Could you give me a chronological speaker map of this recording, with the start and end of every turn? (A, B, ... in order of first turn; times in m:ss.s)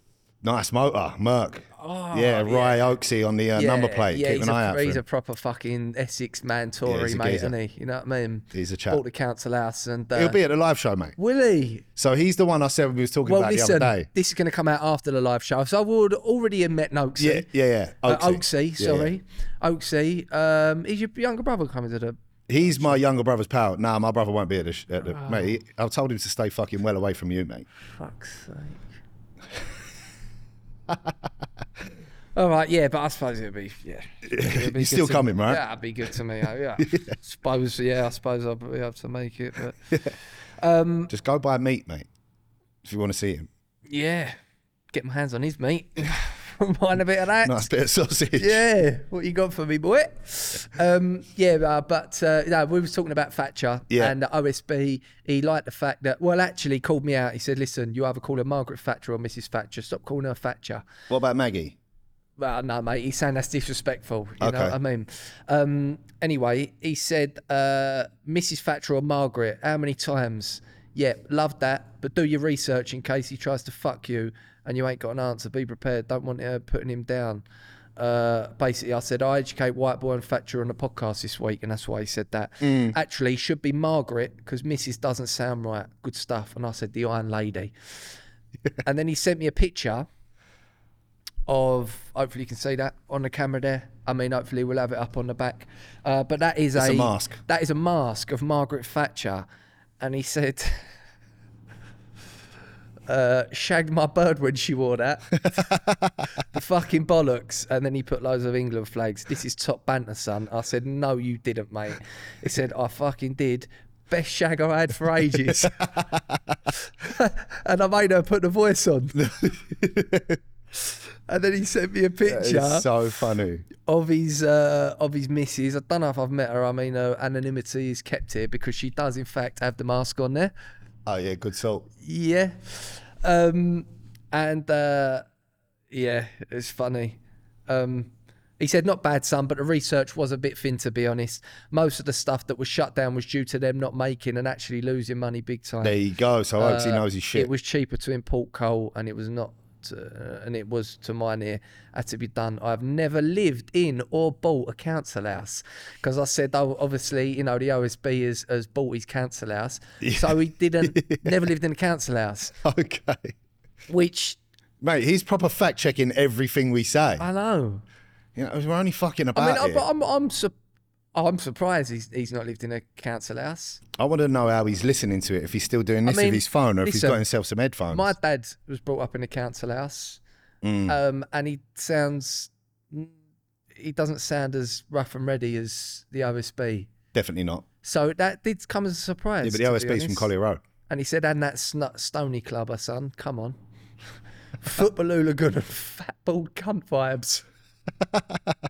0:00.4-0:05.0 A
0:01.8-0:02.9 B
0:03.6-0:10.4 B
0:06.9-0:07.5 A
0:08.5-0:09.0 A
0:10.2-0:11.2 A
0:11.2-0:11.8 B
0:12.0-0:14.1 A
0:13.2-0:17.5 B
0:17.2-0:19.1 A
0:18.0-0:23.0 B
0:22.5-0:27.7 A
0:25.1-0:25.5 B
0:27.8-0:28.8 B
0:32.4-0:40.0 B
0:34.3-0:35.6 A
0:36.8-0:37.1 A
0:40.6-0:41.1 B
0:41.1-0:42.1 A
0:42.8-0:43.5 A
0:43.9-0:44.4 B
0:44.9-0:47.6 B
0:47.4-0:48.6 A
0:48.4-1:00.8 B
0:53.9-0:54.2 A
1:01.1-1:01.8 A
1:02.4-1:17.4 B
1:04.4-1:04.8 A
1:18.0-1:27.7 B
1:22.6-1:23.0 A
1:28.8-1:30.1 B
1:31.5-1:39.5 B
1:36.8-1:37.4 A
1:40.0-1:40.9 B
1:43.1-1:45.8 B
1:46.4-1:55.9 B
1:56.8-1:59.2 B
1:59.2-2:00.4 A
2:00.9-2:02.9 B
2:02.3-2:03.7 A
2:03.8-2:10.5 B
2:11.1-2:11.9 A
2:12.0-2:15.3 B
2:15.9-2:26.0 B
2:25.8-2:27.5 A
2:26.6-2:42.6 B
2:40.0-2:41.4 A
2:42.6-2:43.4 A
2:43.9-2:44.4 B
2:44.8-2:47.3 A
2:47.2-2:47.8 B
2:48.4-2:49.8 A
2:49.4-2:50.5 B
2:51.1-2:53.8 B
2:54.0-2:58.1 A
2:56.0-2:57.2 B
2:57.9-3:00.2 B
3:00.6-3:01.0 A
3:00.9-3:03.2 B
3:03.8-3:06.9 B
3:07.1-3:07.7 A
3:07.8-3:10.3 B
3:09.4-3:10.6 A
3:10.9-3:13.6 B
3:14.6-3:17.5 B
3:18.0-3:18.6 A